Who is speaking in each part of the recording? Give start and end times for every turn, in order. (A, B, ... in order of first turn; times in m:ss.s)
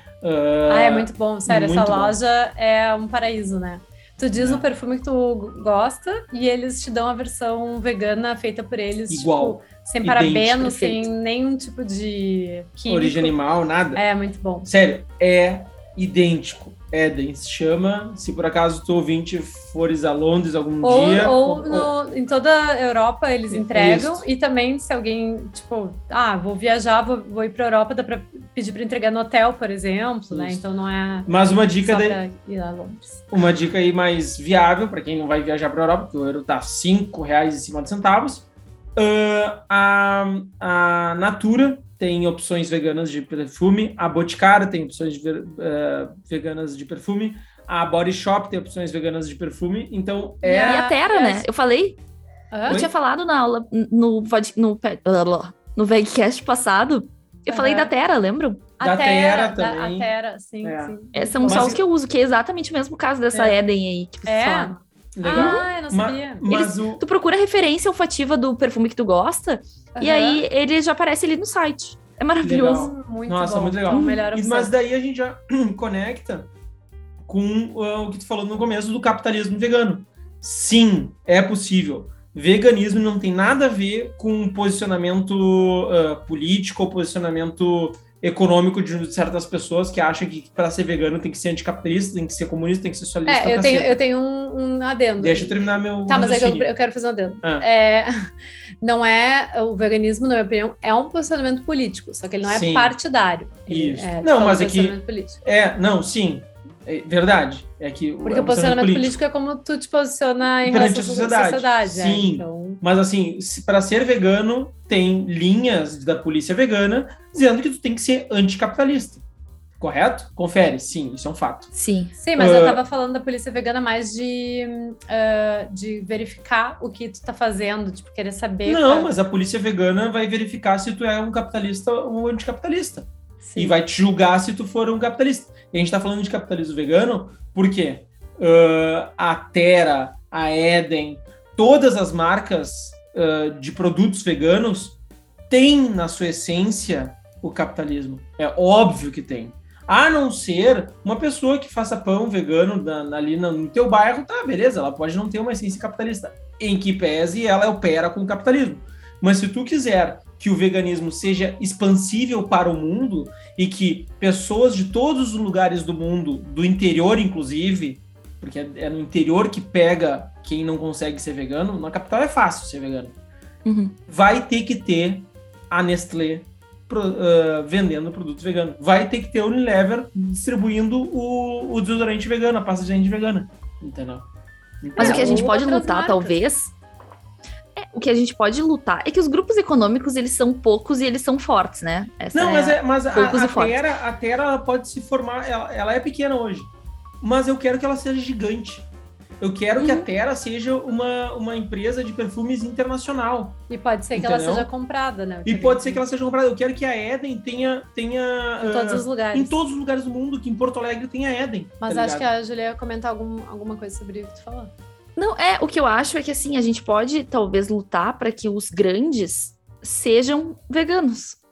0:00.2-0:02.2 A
0:00.7-0:13.4 B
0:04.4-0:04.6 A
0:09.1-0:11.0 A
0:12.9-0:14.0 A
0:14.0-0:14.7 B
0:14.6-0:21.9 A
0:20.8-0:33.2 B
0:23.5-0:24.2 A
0:30.3-0:30.6 A
0:31.2-0:32.2 A
0:33.3-0:50.8 A
0:50.4-0:51.4 B
0:50.6-0:52.0 C
0:52.5-0:52.9 B
0:52.7-0:52.9 A
0:52.7-0:58.7 C
0:57.5-0:57.9 B
0:58.8-1:01.8 B
0:58.8-1:00.1 A
1:00.6-1:01.0 A
1:01.1-1:04.8 C
1:01.5-1:01.8 A
1:04.2-1:06.5 B
1:05.2-1:07.0 A
1:05.3-1:05.6 C
1:06.5-1:12.9 C
1:10.0-1:10.4 B
1:12.4-1:16.5 A
1:12.7-1:14.7 B
1:13.9-1:14.2 C
1:17.2-1:34.0 A
1:33.2-1:38.3 B
1:35.2-1:36.7 A
1:38.8-1:45.4 B
1:42.4-1:43.0 A
1:43.7-1:49.2 A
1:48.2-1:52.8 B
1:50.6-1:59.2 A
1:59.8-2:01.7 A
2:01.7-2:02.1 C
2:02.2-2:09.1 B
2:02.4-2:02.8 A
2:08.6-2:25.0 A
2:13.4-2:13.8 B
2:25.5-2:53.1 A
2:53.6-2:54.0 C
2:54.1-3:04.3 A
3:04.8-3:05.5 A
3:05.0-3:06.4 B
3:05.0-3:06.7 C
3:07.8-3:13.8 C
3:12.3-3:18.9 A
3:19.4-3:23.6 A
3:19.8-3:20.1 B
3:23.7-3:26.0 B
3:24.1-3:24.7 A
3:25.4-3:32.3 A
3:28.6-3:29.6 B
3:31.8-3:34.7 B
3:35.2-3:41.4 C